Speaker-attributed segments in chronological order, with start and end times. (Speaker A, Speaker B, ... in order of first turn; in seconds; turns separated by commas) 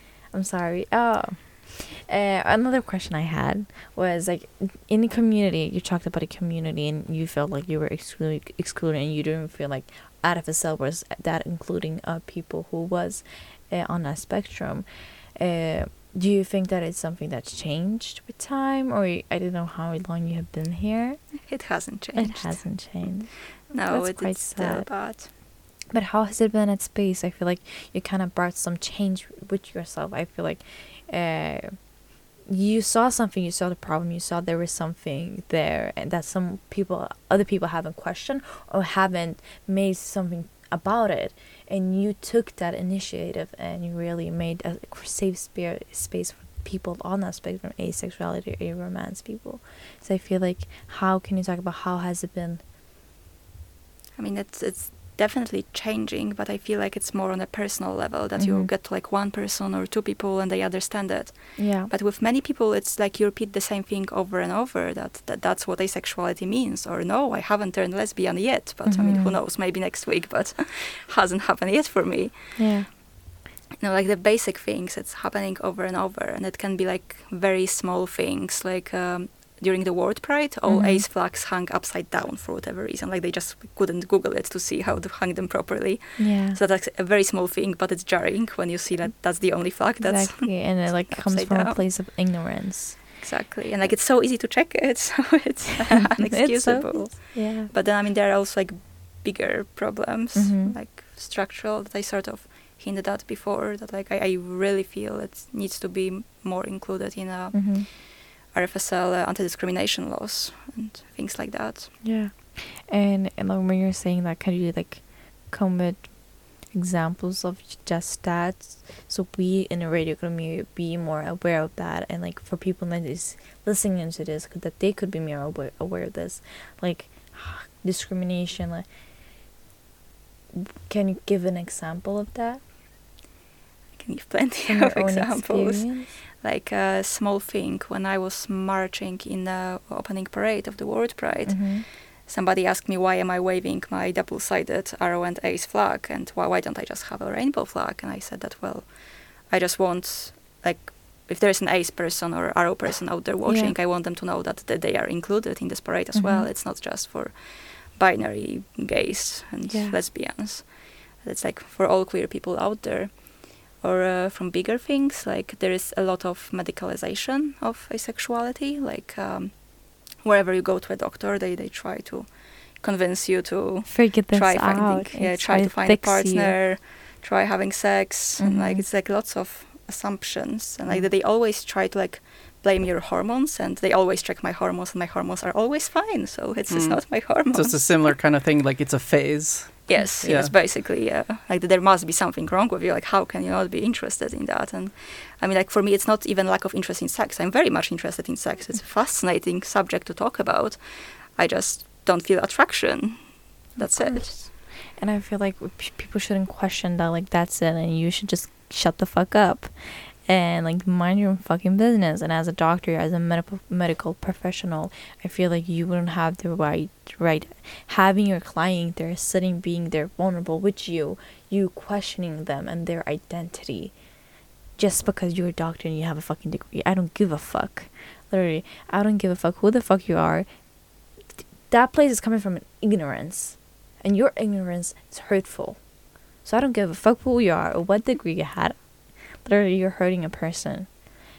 Speaker A: 0.3-14.8, Speaker A: 15.3-21.4, Speaker B: 21.4-25.3, Speaker A: 22.1-25.1, Speaker A: 25.9-31.7, Speaker A: 32.5-52.6, Speaker B: 54.1-72.9, Speaker A: 58.4-58.7, Speaker A: 61.5-61.9, Speaker A: 68.8-69.3, Speaker A: 72.5-72.9, Speaker B: 73.8-91.8, Speaker A: 80.7-81.0, Speaker A: 86.2-86.6, Speaker A: 89.6-93.2, Speaker B: 93.2-112.0, Speaker A: 96.3-97.7, Speaker A: 100.3-100.8, Speaker A: 107.5-107.9, Speaker A: 112.0-128.8, Speaker A: 130.6-132.6, Speaker B: 133.9-188.2, Speaker A: 134.7-136.1, Speaker A: 141.4-141.8, Speaker A: 153.4-153.7, Speaker A: 156.1-156.5, Speaker A: 159.7-160.0, Speaker A: 173.9-176.6, Speaker A: 178.4-178.8, Speaker C: 186.7-190.5, Speaker B: 189.9-204.5, Speaker A: 203.8-224.0, Speaker A: 224.7-230.5, Speaker A: 231.7-241.0